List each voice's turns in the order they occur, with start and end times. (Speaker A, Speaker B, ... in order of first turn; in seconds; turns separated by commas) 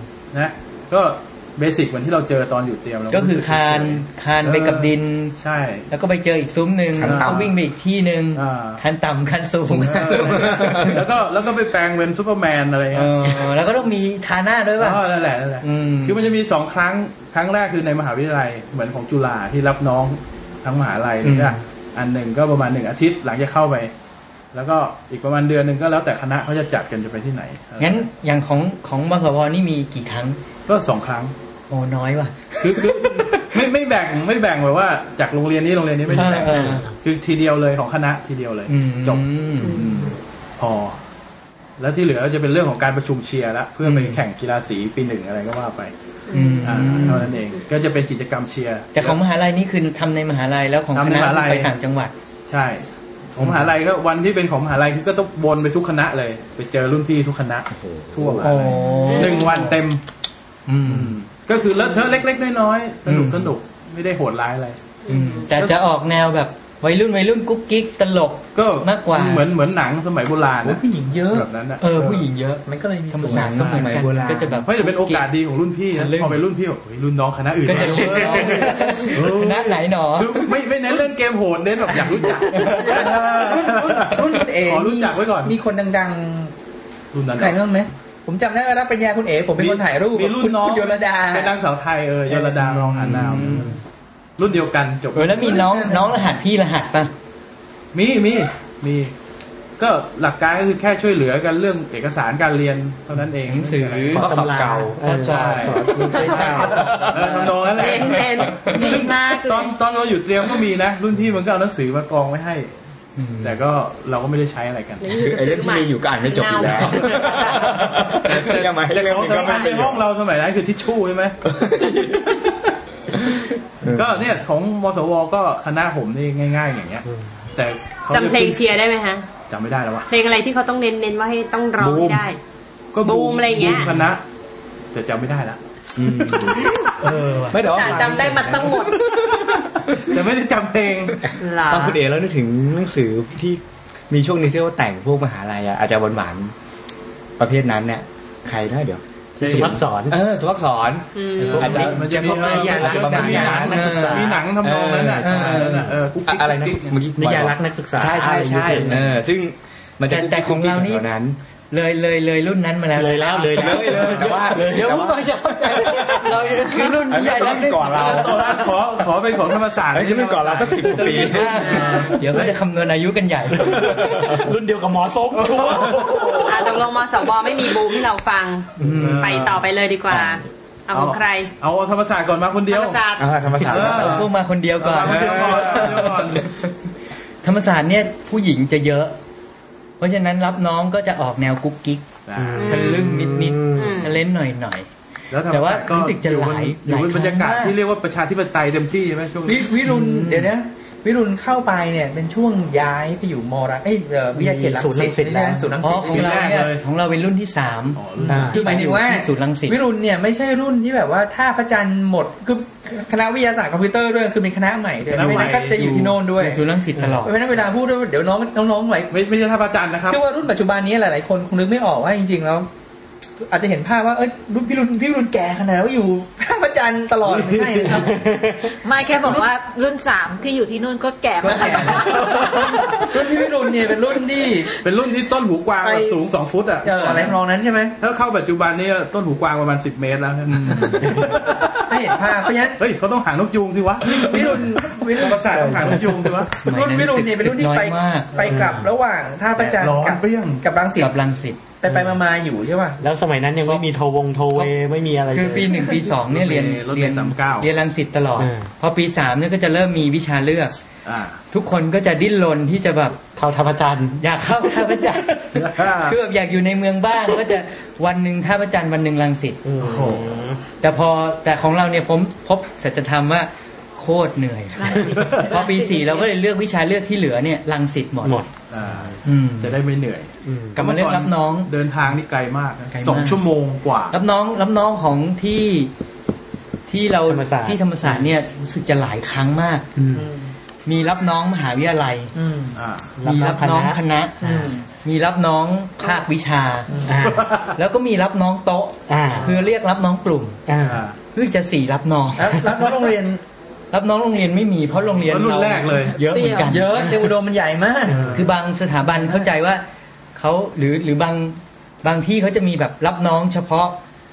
Speaker A: 0.3-5.9, Speaker B: 3.1-5.3, Speaker B: 5.9-11.0, Speaker C: 7.0-7.5, Speaker A: 7.0-7.5, Speaker A: 8.3-8.8, Speaker A: 9.7-13.6, Speaker C: 9.9-11.0, Speaker B: 12.9-15.0, Speaker A: 14.8-23.9, Speaker B: 15.6-16.3, Speaker B: 21.2-21.6, Speaker A: 24.5-28.1, Speaker B: 27.8-30.4, Speaker A: 30.7-31.3, Speaker B: 31.7-33.6, Speaker A: 32.6-41.0, Speaker B: 36.1-36.9, Speaker D: 36.2-36.9, Speaker B: 38.7-39.9, Speaker E: 39.6-40.0, Speaker A: 41.8-45.9, Speaker B: 43.8-44.2, Speaker E: 46.3-47.0, Speaker B: 46.3-47.4, Speaker A: 46.6-49.2, Speaker B: 49.0-52.1, Speaker A: 51.0-51.7, Speaker A: 52.5-60.0, Speaker B: 53.4-53.7, Speaker C: 57.8-58.6, Speaker B: 58.4-59.8, Speaker E: 59.0-59.5, Speaker B: 60.7-61.2, Speaker A: 60.9-64.8, Speaker B: 63.1-63.5, Speaker E: 65.1-65.5, Speaker B: 65.1-69.5, Speaker A: 68.5-72.1, Speaker F: 70.6-71.5, Speaker B: 71.8-75.3, Speaker F: 72.7-73.7, Speaker C: 73.3-74.6, Speaker A: 73.5-73.9, Speaker A: 74.6-85.6, Speaker B: 76.0-76.4, Speaker B: 77.7-80.5, Speaker B: 82.5-83.2, Speaker F: 82.8-86.5, Speaker A: 87.1-87.6, Speaker F: 87.3-91.5, Speaker A: 89.6-93.8, Speaker B: 92.6-93.8, Speaker A: 94.4-95.7, Speaker B: 95.1-97.1, Speaker F: 95.5-96.1, Speaker A: 97.9-99.1, Speaker A: 99.8-104.2, Speaker B: 103.5-104.2, Speaker C: 104.1-105.0, Speaker D: 104.1-107.0, Speaker B: 105.0-107.3, Speaker A: 105.2-106.1, Speaker E: 105.9-107.2, Speaker A: 106.8-112.7, Speaker C: 107.2-107.6, Speaker E: 107.7-109.7, Speaker B: 108.0-108.7, Speaker G: 108.9-109.3, Speaker B: 113.2-113.6, Speaker A: 113.4-115.2, Speaker E: 115.0-118.0, Speaker C: 115.1-120.0, Speaker A: 117.8-121.4, Speaker E: 119.2-119.8, Speaker C: 121.5-122.5, Speaker C: 123.8-124.3, Speaker A: 123.9-128.6, Speaker E: 128.1-129.3, Speaker A: 129.5-130.1, Speaker E: 130.1-132.4, Speaker C: 131.8-132.3, Speaker A: 132.9-134.2, Speaker E: 133.0-133.9, Speaker A: 134.9-137.1, Speaker C: 136.0-136.8, Speaker B: 137.0-137.6, Speaker C: 137.5-138.9, Speaker E: 137.7-139.1, Speaker A: 139.1-141.2, Speaker E: 141.4-142.0, Speaker C: 141.7-146.5, Speaker C: 147.4-161.4, Speaker D: 149.4-150.2, Speaker A: 149.4-149.8, Speaker E: 151.2-151.8, Speaker A: 151.4-157.0, Speaker B: 151.5-154.4, Speaker D: 153.8-154.1, Speaker B: 155.2-156.0, Speaker D: 157.2-159.0, Speaker B: 160.1-161.1, Speaker B: 161.7-168.6, Speaker D: 163.0-165.1, Speaker C: 163.6-168.8, Speaker A: 163.9-164.3, Speaker D: 165.8-166.5, Speaker A: 167.9-171.2, Speaker C: 169.9-171.6, Speaker B: 170.8-174.0, Speaker E: 171.5-172.2, Speaker A: 172.2-172.6, Speaker A: 173.7-174.1, Speaker D: 173.7-176.8, Speaker A: 175.3-176.5, Speaker E: 176.4-181.5, Speaker B: 178.8-179.6, Speaker A: 178.9-179.6, Speaker A: 180.9-183.0, Speaker E: 182.7-183.3, Speaker C: 183.2-184.3, Speaker A: 183.6-186.5, Speaker B: 183.9-186.7, Speaker C: 184.9-186.1, Speaker B: 187.4-189.2, Speaker B: 190.0-194.9, Speaker A: 192.3-192.8, Speaker D: 192.4-194.0, Speaker E: 192.6-193.2, Speaker E: 193.7-194.2, Speaker A: 195.3-199.8, Speaker B: 195.5-197.8, Speaker F: 199.5-206.3, Speaker B: 199.8-200.5, Speaker D: 204.4-205.7, Speaker B: 205.8-209.8, Speaker A: 206.0-206.8, Speaker A: 208.0-208.6, Speaker D: 208.3-208.6, Speaker F: 208.3-216.6, Speaker A: 215.1-215.9, Speaker B: 215.2-217.4, Speaker F: 217.2-219.1, Speaker A: 219.1-220.2, Speaker F: 220.1-222.7, Speaker F: 223.4-228.3, Speaker A: 227.3-228.1, Speaker D: 227.9-228.7, Speaker G: 228.8-232.8, Speaker F: 231.4-234.7, Speaker A: 232.2-233.1, Speaker A: 234.8-237.3, Speaker F: 235.8-236.2, Speaker F: 236.8-238.0, Speaker A: 238.0-246.5, Speaker B: 240.5-241.2, Speaker F: 241.9-242.8, Speaker F: 244.1-246.0, Speaker F: 246.5-251.2, Speaker B: 246.6-248.3, Speaker D: 248.4-248.9, Speaker A: 249.6-250.6, Speaker B: 251.0-251.6, Speaker F: 251.8-253.0, Speaker D: 251.9-252.2, Speaker D: 253.0-255.9, Speaker B: 255.3-260.8, Speaker A: 256.3-257.7, Speaker D: 258.4-258.7, Speaker A: 261.1-261.4, Speaker B: 261.5-263.2, Speaker D: 263.4-264.2, Speaker B: 264.2-269.6, Speaker A: 265.6-266.1, Speaker D: 269.6-270.6, Speaker A: 269.8-270.4, Speaker B: 270.8-278.4, Speaker G: 274.8-276.3, Speaker A: 275.1-275.4, Speaker D: 278.2-279.1, Speaker A: 278.7-284.2, Speaker B: 279.2-279.8, Speaker D: 280.5-280.8, Speaker B: 280.8-281.7, Speaker B: 282.9-283.4, Speaker B: 284.1-285.9, Speaker B: 286.9-289.9, Speaker D: 287.3-288.3, Speaker D: 290.0-290.3, Speaker F: 290.1-290.5, Speaker B: 290.9-292.3, Speaker F: 292.4-292.8, Speaker A: 292.8-293.1, Speaker D: 293.2-294.7, Speaker B: 293.2-294.4, Speaker F: 294.4-294.9, Speaker B: 294.9-296.9, Speaker D: 297.1-297.5, Speaker A: 297.2-297.8, Speaker B: 297.8-300.6, Speaker D: 299.1-299.5, Speaker D: 300.7-301.0, Speaker A: 300.8-301.2, Speaker B: 301.3-302.7, Speaker F: 302.4-303.4, Speaker B: 303.9-307.3, Speaker A: 305.3-306.2, Speaker G: 306.3-306.8, Speaker F: 306.7-308.4, Speaker A: 308.1-308.5, Speaker B: 308.3-309.8, Speaker B: 310.4-314.0